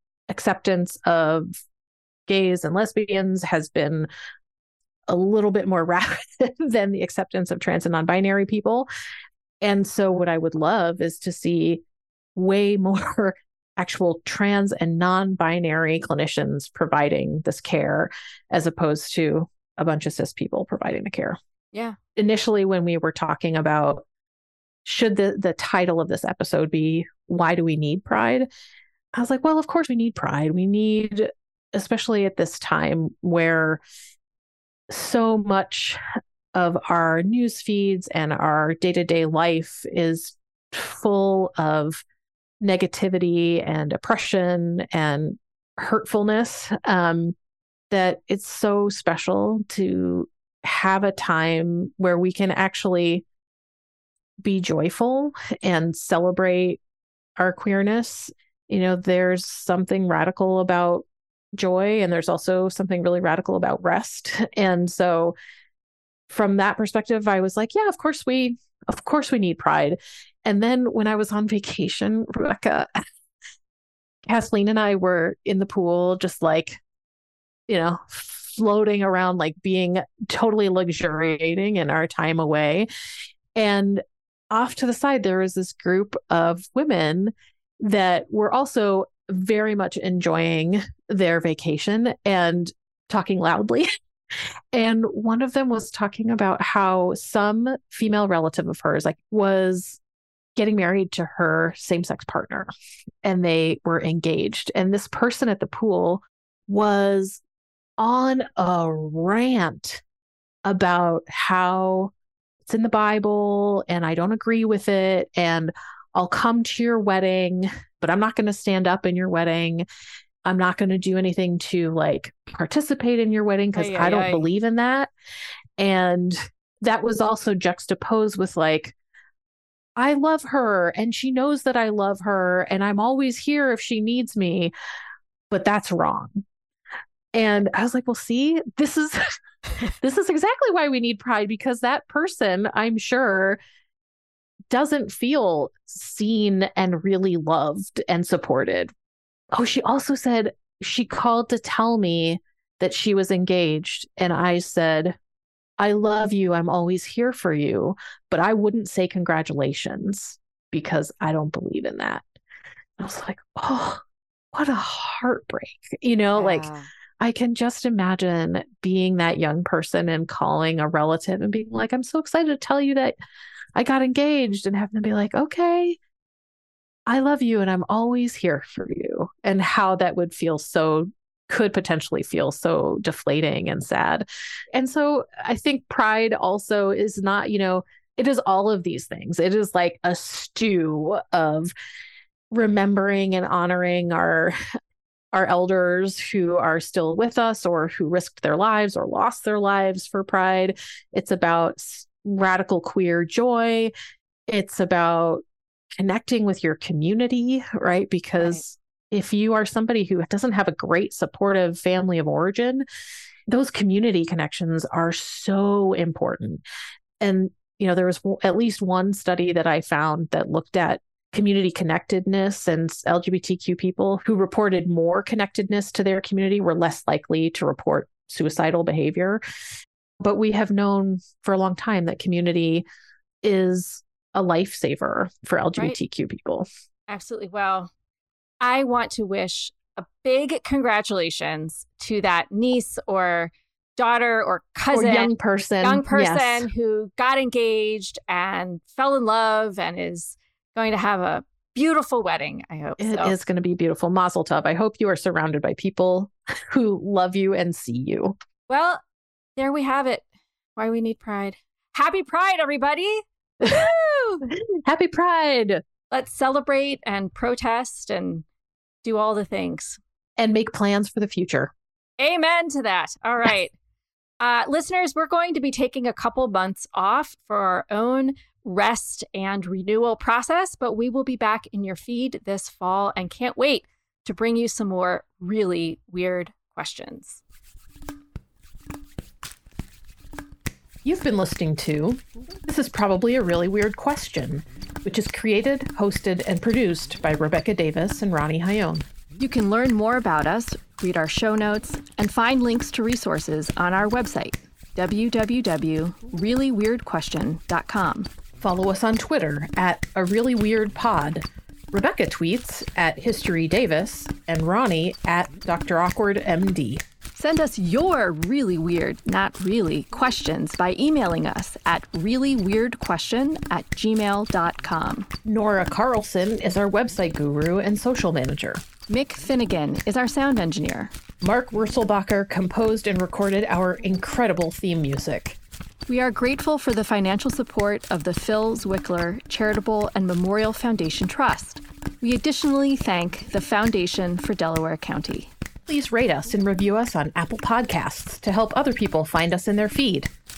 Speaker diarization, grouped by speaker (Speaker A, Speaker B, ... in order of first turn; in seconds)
Speaker A: 0.3-1.5, 2.3-4.1, 5.1-8.9, 9.6-11.8, 12.3-21.4, 22.2-24.1, 24.9-28.5, 29.1-33.8, 34.9-36.0, 36.5-42.0, 42.6-47.4, 47.9-53.2, 54.4-56.8, 57.4-61.1, 61.6-65.4, 66.3-72.9, 74.3-76.8, 77.7-82.9, 83.6-100.0, 100.6-102.7, 103.2-107.4, 108.0-110.0, 110.7-112.1, 112.7-119.9, 120.5-125.1, 125.8-129.0, 130.0-134.7, 135.5-136.4, 137.3-139.2, 140.0-143.6, 144.7-148.9, 149.5-155.2, 155.8-162.2, 163.0-164.0, 164.5-166.7, 167.2-173.2, 173.8-176.0, 177.1-191.7, 192.5-194.5, 195.3-203.9, 204.5-205.4, 206.0-212.8, 213.5-216.6, 217.2-229.4, 230.2-232.8, 233.4-236.7, 244.9-246.7, 253.0-258.4, 264.5-265.8, 270.4-271.7, 291.1-299.1, 308.6-317.0, 325.5-328.8, 331.4-335.6, 345.9-350.3
Speaker B: 123.7-124.5, 166.3-166.9, 237.1-237.9, 238.6-245.3, 245.8-253.3, 258.7-259.0, 259.6-264.5, 266.1-268.4, 269.0-270.0, 272.2-273.7, 274.4-287.4, 299.4-308.3, 317.4-325.3, 329.1-331.1, 336.1-345.5